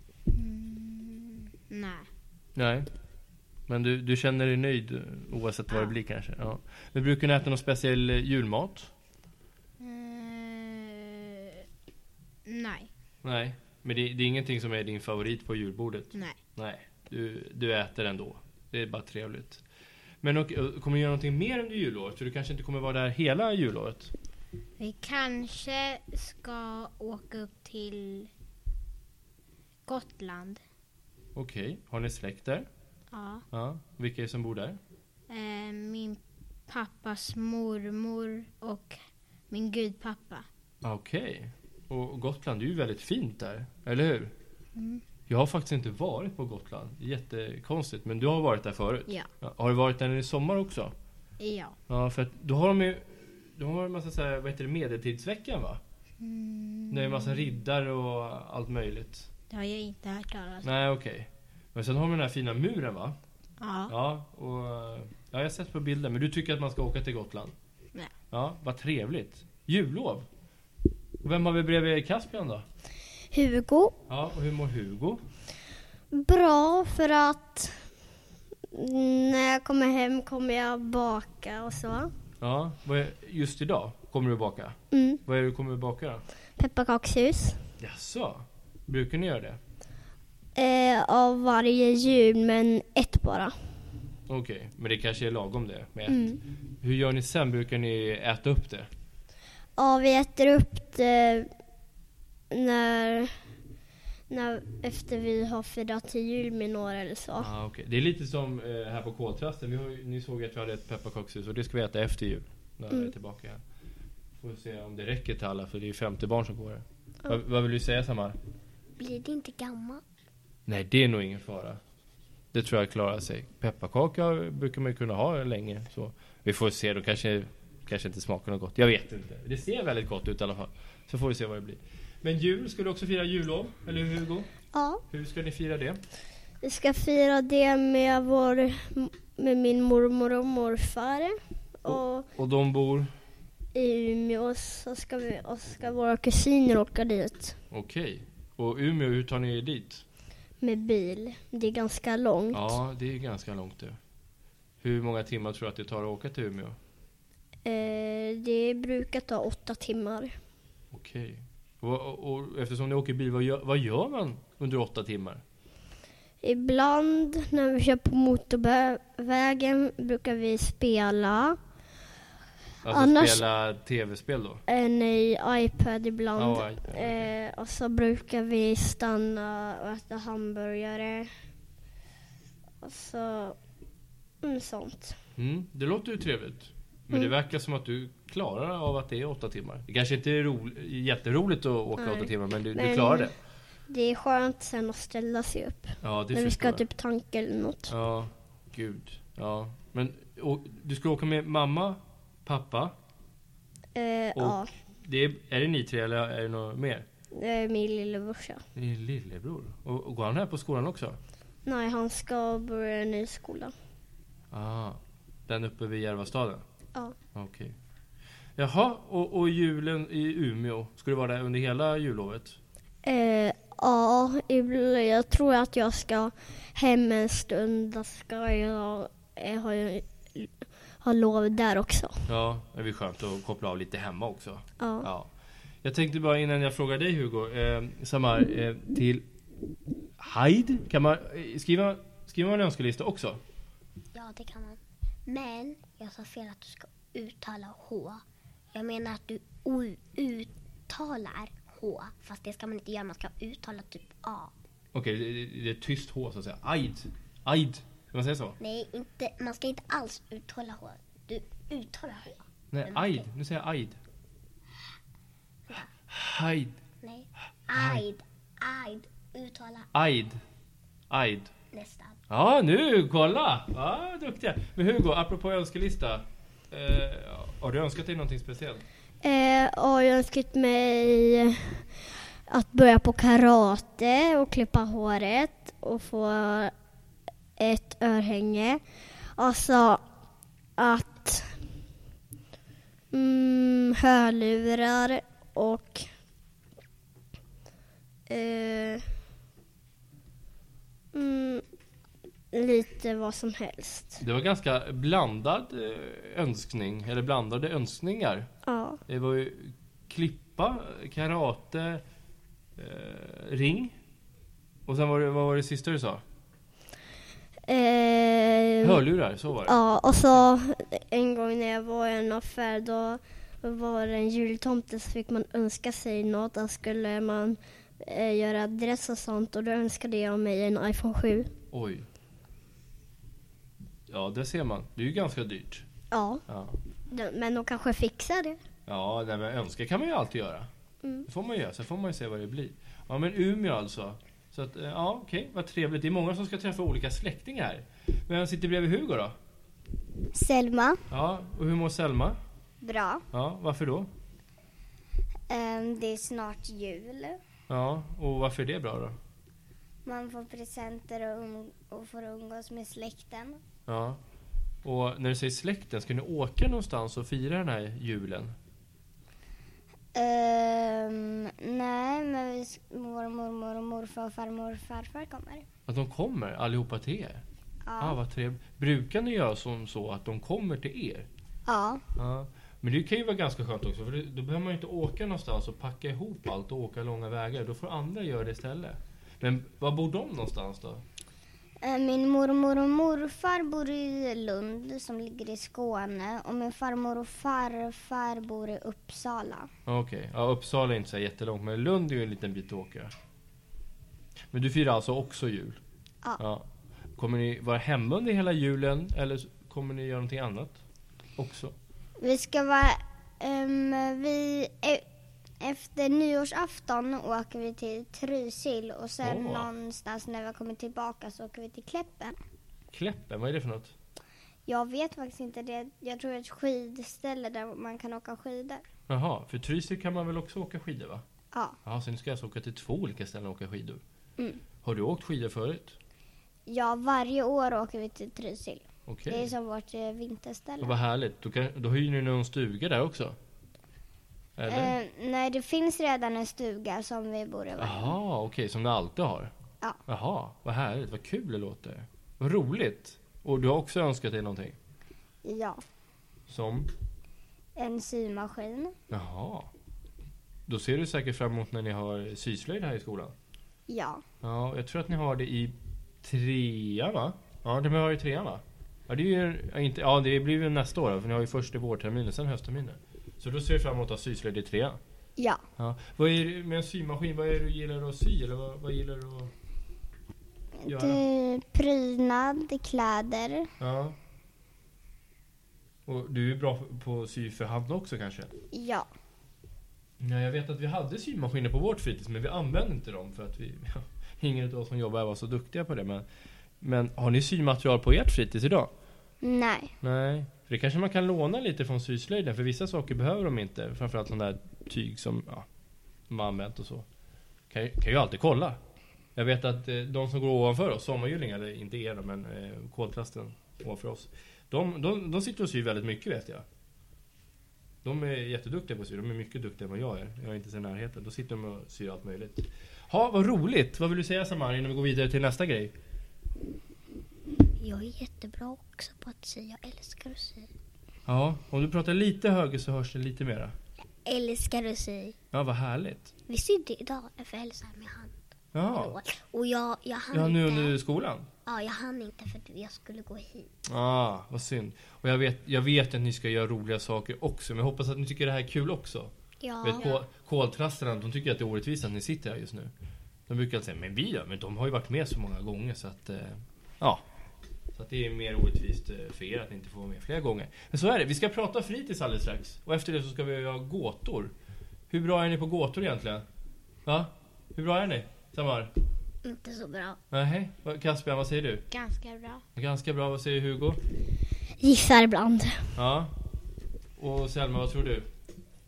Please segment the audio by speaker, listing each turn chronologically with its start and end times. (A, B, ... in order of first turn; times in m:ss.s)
0:00.3-0:02.1 A
0:02.6-0:02.9 B
0:03.7-0:08.9 B
0:05.7-0:06.0 A
0:09.8-0:11.6 A
0:12.5-0:12.9 A
0:13.2-0:19.6 B
0:20.2-0:24.1 B
0:24.8-0:28.3 A
0:29.9-0:30.6 A
0:31.4-0:32.7 B
0:33.1-0:33.4 A
0:33.5-0:34.8 B
0:35.3-0:40.5 A
0:40.8-0:44.3 B
0:44.8-0:45.0 A
0:45.3-0:50.9 B
0:51.4-0:51.8 A
0:51.9-0:55.8 B
0:56.2-0:57.5 A
0:56.9-0:59.3 B
0:59.5-1:00.7 A
1:00.6-1:03.2 B
1:03.6-1:04.0 A
1:03.9-1:07.5 B
1:08.3-1:10.3 B
1:11.2-1:12.6 B
1:13.3-1:14.0 C
1:14.1-1:15.2 B
1:16.1-1:17.9 C
1:18.7-1:22.1 C
1:22.4-1:26.2 B
1:24.9-1:25.2 C
1:26.6-1:27.6 C
1:27.8-1:29.6 B
1:30.6-1:33.6 C
1:34.3-1:38.9 B
1:36.1-1:36.4 C
1:39.8-1:41.5 C
1:42.5-1:43.4 C
1:44.3-1:47.5 C
1:47.4-1:53.6 B
1:54.4-1:58.4 B
1:59.0-2:00.0 D
2:00.7-2:01.8 B
2:02.5-2:14.5 B
2:14.7-2:15.0 C
2:15.1-2:16.0 B
2:16.6-2:22.2 C
2:21.9-2:23.1 B
2:23.8-2:27.5 C
2:27.7-2:30.0 B
2:30.6-2:32.8 C
2:32.5-2:34.0 B
2:34.8-2:36.8 B
2:37.6-2:40.4 C
2:40.9-2:45.4 B
2:46.4-2:51.6 C
2:52.8-2:54.6 B
2:52.9-2:53.4 C
2:54.7-3:01.3 C
2:56.4-2:57.3 B
3:02.8-3:03.6 C
3:04.4-3:05.2 C
3:05.4-3:13.4 B
3:12.0-3:13.3 C
3:13.9-3:17.9 C
3:16.0-3:16.8 B
3:17.9-3:22.9 B
3:24.0-3:24.7 C
3:24.4-3:27.0 B
3:27.3-3:28.6 C
3:28.8-3:31.2 B
3:31.6-3:33.7 C
3:34.5-3:36.6 B
3:37.4-3:37.8 B
3:38.6-3:42.6 B
3:43.0-3:50.5 C
3:51.0-3:52.2 C
3:52.3-3:55.3 B
3:54.8-3:55.1 C
3:55.8-3:59.2 B
4:00.2-4:03.4 B
4:04.1-4:14.5 D
4:14.9-4:18.6 B
4:18.6-4:23.2 D
4:22.7-4:24.0 B
4:26.1-4:26.8 B
4:27.0-4:29.9 D
4:27.7-4:28.0 B
4:29.9-4:30.4 B
4:31.1-4:31.5 B
4:31.7-4:32.2 D
4:32.3-4:38.8 B
4:39.2-4:41.8 C
4:42.5-4:46.7 C
4:47.6-4:48.8 C
4:49.4-4:50.0 C
4:50.8-4:51.6 C
4:53.1-4:56.1 C
4:58.3-4:59.1 C
5:01.1-5:01.6 C
5:02.5-5:04.2 C
5:04.2-5:08.5 B
5:08.7-5:09.0 C
5:09.1-5:12.0 B
5:12.8-5:13.9 B
5:14.9-5:16.2 B
5:17.7-5:19.0 C
5:18.8-5:19.8 B
5:19.7-5:31.5 C
5:31.7-5:32.1 B
5:34.1-5:35.8 B
5:36.1-5:36.4 C
5:36.5-5:36.8 B
5:37.1-5:38.6 C
5:38.9-5:40.7 B
5:41.3-5:49.4 B
5:50.3-5:51.0 E
5:51.1-5:52.4 B
5:52.8-5:53.3 E
5:53.3-5:54.1 B
5:55.5-5:57.4 E
5:57.7-5:59.2 B
6:00.0-6:03.6 E
6:03.9-6:04.2 B
6:04.8-6:08.6 B
6:10.1-6:15.7 E
6:15.9-6:17.4 B
6:17.9-6:18.2 E
6:18.0-6:21.3 B
6:21.7-6:22.0 E
6:22.2-6:31.0 B
6:31.8-6:39.7 E
6:39.9-6:43.1 B
6:44.5-6:45.8 B
6:46.4-6:46.6 B
6:47.2-6:50.8 B
6:51.4-6:51.8 B
6:52.2-6:55.0 E
6:55.6-7:02.4 E
6:59.2-6:59.7 B
7:02.9-7:03.9 B
7:04.7-7:08.8 E
7:09.1-7:11.2 B
7:11.8-7:14.0 B
7:14.8-7:16.0 B
7:16.7-7:21.0 E
7:19.1-7:19.5 B
7:20.8-7:23.4 B
7:24.6-7:24.9 B
7:24.7-7:28.2 E
7:27.8-7:29.5 B
7:30.1-7:34.8 B
7:35.4-7:35.8 E
7:36.5-7:36.9 B
7:37.8-7:38.9 E
7:39.1-7:39.7 B
7:40.7-7:43.3 B
7:43.9-7:44.2 E
7:44.4-7:55.0 B
7:55.8-7:59.5 B
8:00.8-8:03.7 E
8:00.9-8:01.2 B
8:03.8-8:04.2 B
8:06.1-8:08.5 B
8:08.7-8:09.1 E
8:10.2-8:16.2 B
8:16.8-8:18.9 B
8:19.4-8:19.9 E
8:20.0-8:25.7 B
8:26.3-8:27.1 B
8:27.7-8:28.8 B
8:29.4-8:36.6 B
8:38.0-8:45.9 B
8:47.8-8:50.7 D
8:51.3-8:53.8 B
8:54.0-8:55.4 D
8:55.5-8:56.3 B
8:56.5-8:58.4 D
8:58.7-8:59.2 B
8:58.9-9:01.0 D
9:00.3-9:01.5 B
9:01.7-9:03.7 D
9:03.9-9:09.3 B
9:09.6-9:10.2 D
9:09.8-9:12.9 B
9:13.5-9:17.2 B
9:18.0-9:24.5 B
9:25.1-9:26.5 B
9:27.1-9:28.9 B
9:29.4-9:30.2 D
9:30.3-9:31.8 B
9:31.9-9:32.6 A
9:32.8-9:34.0 B
9:34.8-9:35.9 C
9:36.0-9:36.3 B
9:37.2-9:38.3 B